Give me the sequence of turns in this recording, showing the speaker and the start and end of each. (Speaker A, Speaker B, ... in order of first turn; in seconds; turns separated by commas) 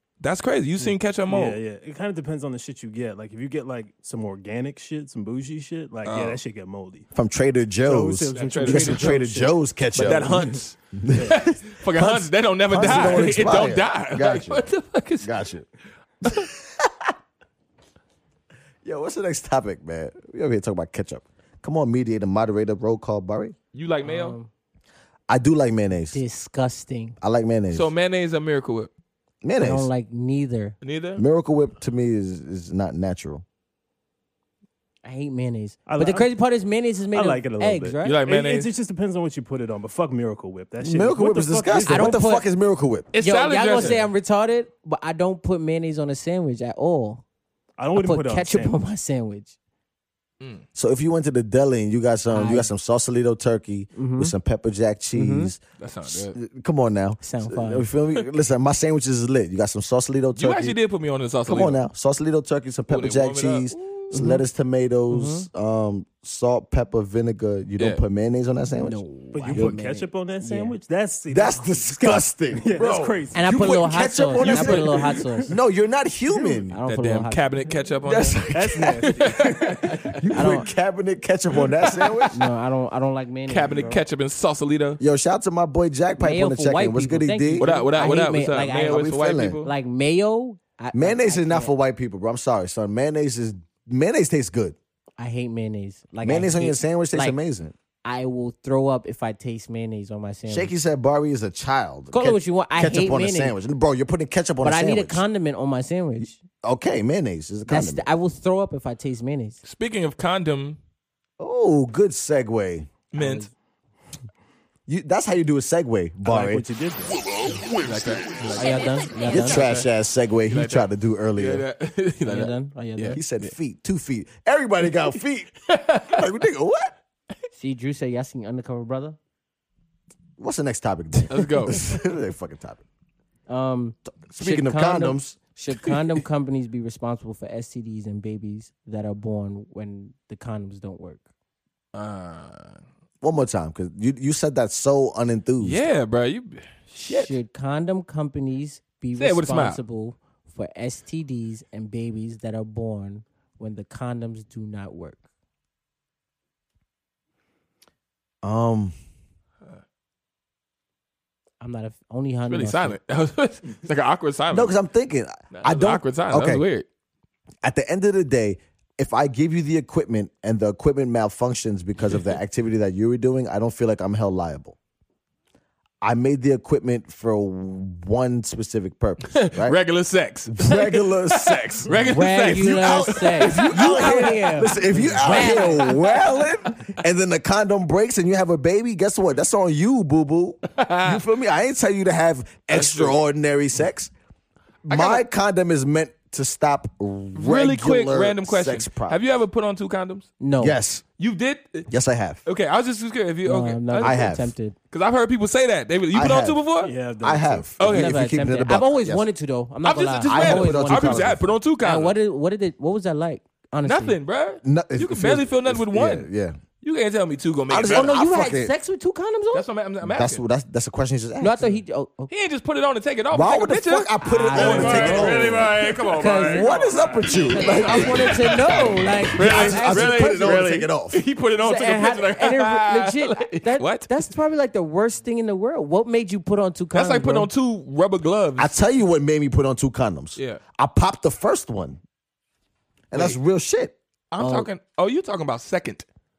Speaker A: 0.2-1.6, Speaker B: 0.8-7.1, Speaker A: 6.0-6.4, Speaker C: 7.1-10.4, Speaker B: 7.8-10.6, Speaker A: 8.3-9.2, Speaker A: 9.9-15.4, Speaker C: 10.9-14.6, Speaker C: 15.2-15.7, Speaker C: 16.2-16.9, Speaker C: 18.8-23.5, Speaker A: 23.7-24.4, Speaker D: 24.0-24.5, Speaker C: 25.3-26.2, Speaker D: 26.1-27.2, Speaker C: 27.2-27.9, Speaker A: 27.7-28.9, Speaker C: 29.4-29.9, Speaker D: 29.6-30.7, Speaker A: 30.8-31.2, Speaker C: 31.2-33.4, Speaker D: 35.0-38.2, Speaker B: 35.9-36.3, Speaker B: 37.1-42.2, Speaker A: 38.0-38.7, Speaker C: 40.8-43.1, Speaker D: 41.9-42.5, Speaker A: 43.1-44.1, Speaker D: 43.2-47.2, Speaker B: 47.8-48.7, Speaker D: 47.9-49.5, Speaker C: 50.7-60.8, Speaker D: 52.3-52.7, Speaker D: 53.9-54.3, Speaker D: 55.1-55.5, Speaker A: 55.8-56.4, Speaker D: 57.2-57.9, Speaker A: 60.4-61.8, Speaker C: 61.5-69.8, Speaker A: 62.9-64.1, Speaker D: 64.1-64.4, Speaker D: 65.1-65.5, Speaker D: 68.8-70.8, Speaker B: 69.3-75.5, Speaker C: 71.3-76.8, Speaker D: 73.3-75.5, Speaker A: 74.4-74.7, Speaker D: 76.7-77.6, Speaker A: 76.9-80.2, Speaker C: 78.0-82.4, Speaker B: 78.5-79.7, Speaker D: 80.3-80.7, Speaker A: 81.6-82.3, Speaker D: 82.3-84.0, Speaker A: 83.5-85.0, Speaker C: 85.0-87.7, Speaker D: 86.2-89.1, Speaker A: 87.6-89.7, Speaker C: 88.8-89.6, Speaker D: 89.6-91.7, Speaker C: 90.9-94.8, Speaker D: 95.2-97.4, Speaker C: 96.2-97.7, Speaker D: 98.0-100.7, Speaker C: 100.5-105.2, Speaker D: 102.1-103.5, Speaker D: 104.6-106.4, Speaker C: 106.2-108.0, Speaker D: 107.7-109.6, Speaker A: 109.6-110.8, Speaker C: 111.4-112.9, Speaker A: 113.1-113.5, Speaker D: 113.1-113.5, Speaker C: 114.9-116.6, Speaker B: 116.2-117.2, Speaker A: 117.7-119.9, Speaker D: 118.5-119.6, Speaker C: 119.2-121.7, Speaker A: 120.5-123.5, Speaker D: 122.2-123.2, Speaker C: 123.1-126.9, Speaker A: 125.7-126.3, Speaker D: 127.5-129.2, Speaker C: 130.4-132.8, Speaker A: 131.3-131.9, Speaker D: 133.5-141.2, Speaker C: 134.2-135.4, Speaker A: 141.9-142.8, Speaker C: 143.2-145.8, Speaker A: 145.6-147.3, Speaker D: 147.0-155.2, Speaker A: 149.2-149.8, Speaker C: 158.4-158.9, Speaker D: 161.6-163.0, Speaker A: 162.5-164.8, Speaker C: 164.5-166.6, Speaker A: 165.5-166.8, Speaker C: 167.6-174.8, Speaker C: 176.0-179.8, Speaker A: 179.2-186.7, Speaker C: 180.5-194.1, Speaker D: 182.0-186.2, Speaker A: 190.7-191.2, Speaker A: 192.7-193.2, Speaker C: 194.8-199.2, Speaker A: 194.9-195.2, Speaker A: 197.3-200.3, Speaker D: 200.4-200.8, Speaker C: 200.6-201.0, Speaker A: 201.2-201.9, Speaker C: 201.9-202.4, Speaker A: 202.4-204.2, Speaker D: 203.4-204.8, Speaker C: 204.0-204.5, Speaker A: 204.9-206.9, Speaker C: 206.1-206.6, Speaker B: 206.8-207.7, Speaker C: 207.2-209.2, Speaker A: 207.8-208.2, Speaker D: 207.8-214.2, Speaker A: 209.8-212.2, Speaker C: 210.3-211.5, Speaker A: 213.8-216.3, Speaker C: 214.6-216.6, Speaker A: 216.8-218.1, Speaker C: 217.7-218.7, Speaker D: 217.9-219.7, Speaker A: 219.5-220.4, Speaker C: 220.0-221.8, Speaker D: 221.4-222.3, Speaker A: 222.3-234.1, Speaker C: 223.3-231.2, Speaker D: 224.2-230.8, Speaker D: 231.6-237.5, Speaker A: 236.9-238.8, Speaker C: 238.6-242.0, Speaker A: 240.3-240.6, Speaker C: 243.1-243.9, Speaker A: 243.1-243.4, Speaker A: 244.3-246.1, Speaker D: 244.4-244.7